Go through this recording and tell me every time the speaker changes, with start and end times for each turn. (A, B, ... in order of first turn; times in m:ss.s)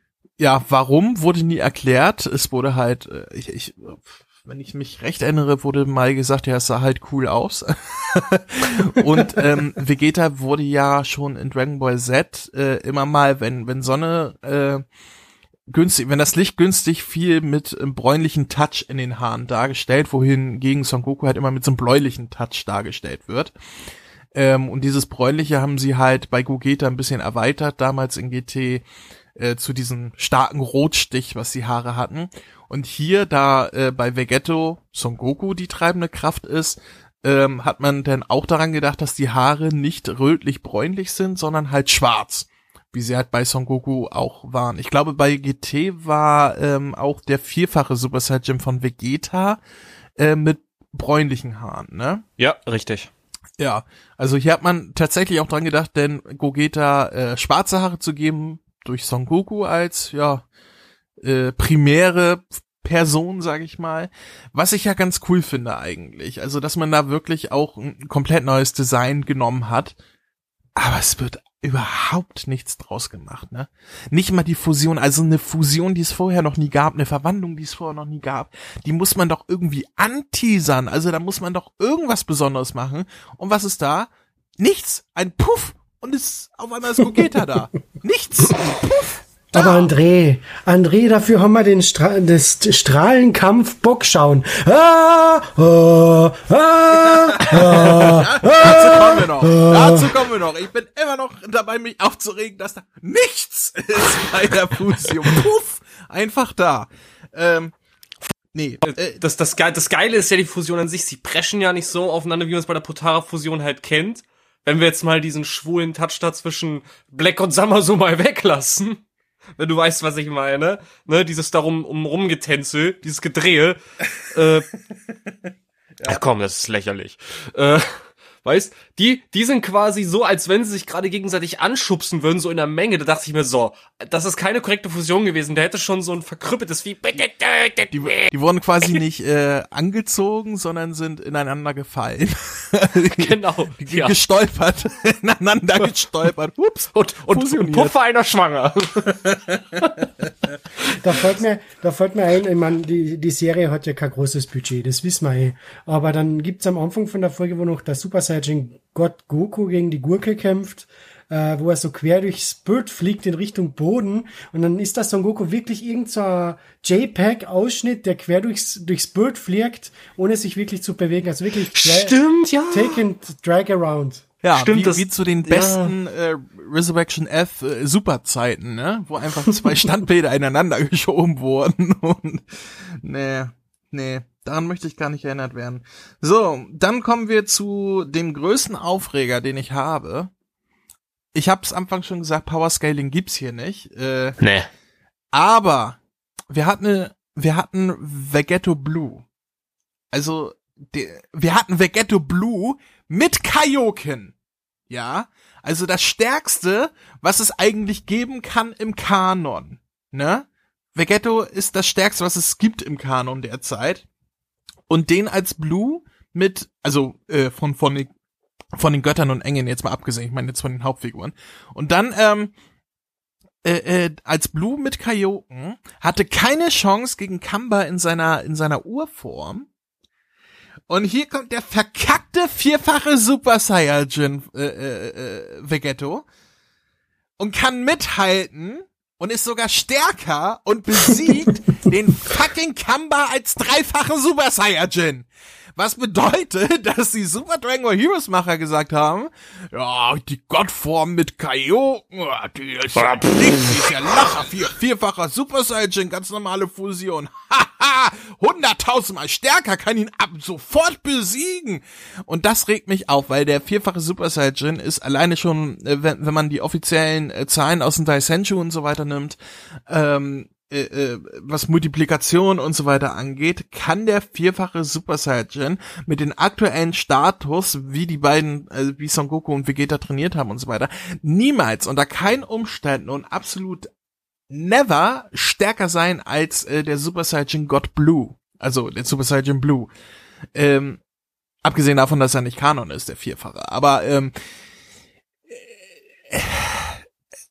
0:00.4-0:14.8 A
0:15.7-0:23.5 A
0:24.3-0:28.8 A
0:29.4-0:49.6 A
0:50.2-0:52.2 A
0:52.4-0:53.1 B
0:53.6-1:00.4 A
1:01.2-1:10.0 A
1:10.8-1:29.9 A
1:29.5-1:40.1 C
1:36.9-1:47.7 A
1:48.5-1:49.2 A
1:48.8-1:59.0 B
1:59.6-2:04.7 B
2:05.2-2:06.2 A
2:06.0-2:07.9 B
2:08.4-2:18.3 B
2:17.9-2:27.9 A
2:23.0-2:24.2 B
2:26.9-2:30.0 B
2:29.2-2:29.8 A
2:31.0-2:52.2 C
2:51.7-2:53.0 B
2:52.7-2:54.2 C
2:54.4-3:10.3 A
2:54.5-2:55.9 B
3:11.3-3:14.4 A
3:14.4-3:14.7 B
3:15.3-3:16.0 A
3:16.5-3:19.2 A
3:20.1-3:24.3 A
3:24.9-3:34.0 A
3:34.9-3:38.1 A
3:38.8-3:42.5 A
3:43.6-3:49.7 A
3:50.9-3:56.2 A
3:57.4-4:29.4 A
4:29.9-4:43.9 A
4:44.5-4:49.9 A
4:50.5-4:51.0 A
4:51.6-4:54.3 A
4:55.5-4:57.0 A